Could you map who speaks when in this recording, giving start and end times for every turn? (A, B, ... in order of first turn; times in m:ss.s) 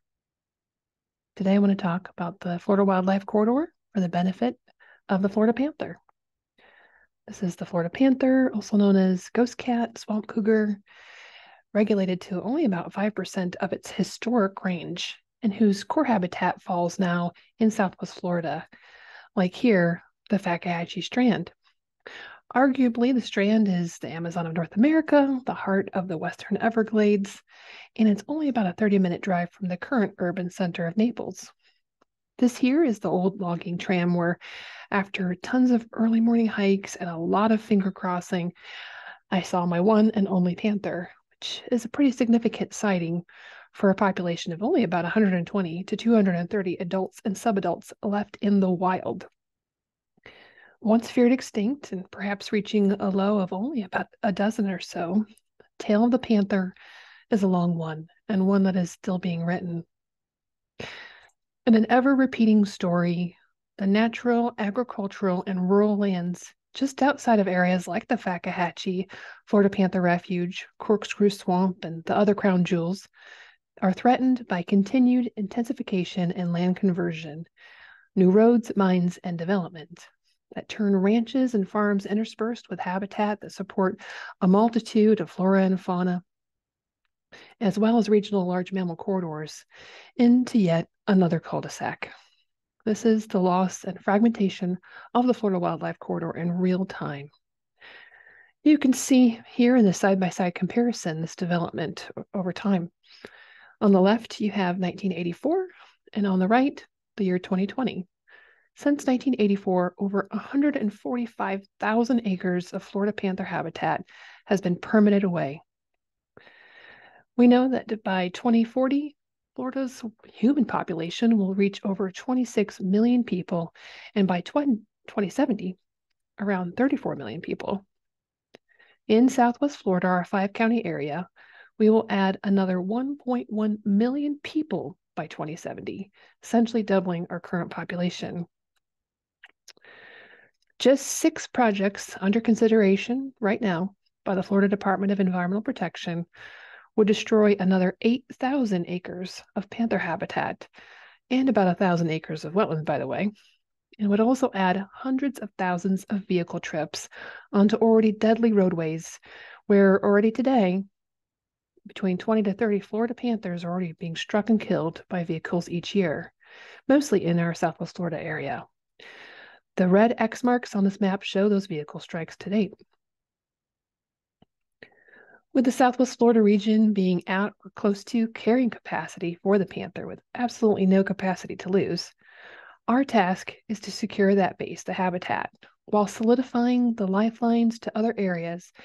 0:01.4-0:04.6 A
0:05.1-0:06.0 A
0:07.3-0:10.8 A
0:11.7-0:18.6 A
0:19.4-0:21.5 A
0:22.5-0:27.4 A
0:28.0-0:31.5 A
0:32.4-0:34.4 A
0:34.9-0:38.5 A
0:39.3-0:49.3 A
0:50.8-0:55.2 A
0:55.8-0:56.7 A
0:57.3-0:59.8 A
1:01.7-1:13.1 A
1:13.8-1:17.5 A
1:18.2-1:26.2 A
1:27.6-1:29.6 A
1:30.2-1:32.1 A
1:32.8-1:37.3 A
1:38.6-1:42.9 A
1:43.8-1:48.1 A
1:48.8-1:55.6 A
1:57.4-2:05.8 A
2:06.4-2:07.8 A
2:09.1-2:11.3 A
2:11.8-2:18.4 A
2:20.8-2:26.2 A
2:27.0-2:30.7 A
2:31.3-2:33.3 A
2:34.0-2:40.9 A
2:41.9-2:46.3 A
2:46.9-2:48.6 A
2:49.8-2:52.7 A
2:55.5-3:02.1 A
3:02.9-3:08.7 A